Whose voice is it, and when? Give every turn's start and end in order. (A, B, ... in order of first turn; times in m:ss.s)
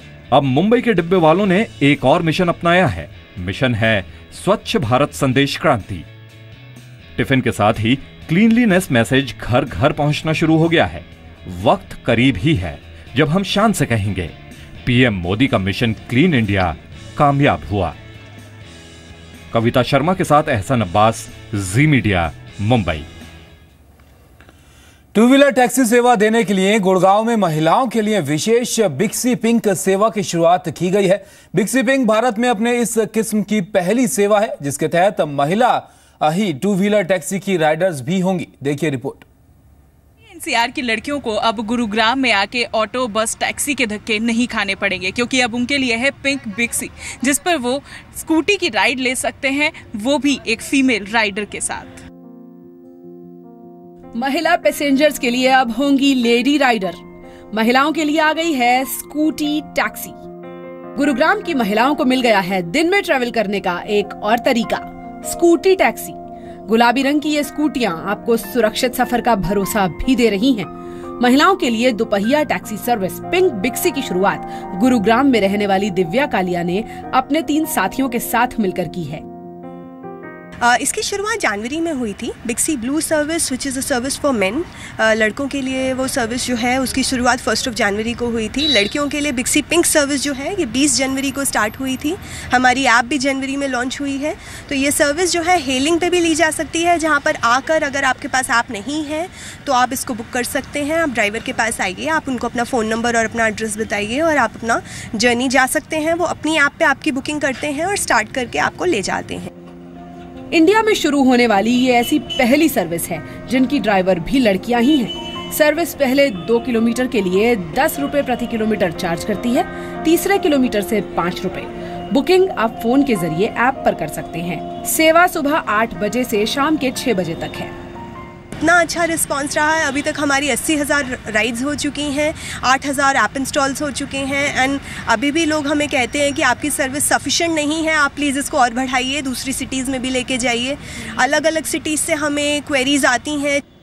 0:00.3-0:06.0 A
0:07.2-0:14.3 A
0:14.8-0:18.0 A
0:19.5-0:23.1 A
0:25.1-0:39.2 B
0:40.4-0:52.0 C
0:54.2-0:57.0 D
0:57.5-1:00.2 D
1:01.0-1:19.2 D
1:20.6-1:49.5 E
1:50.5-2:07.7 D
2:08.6-2:23.6 E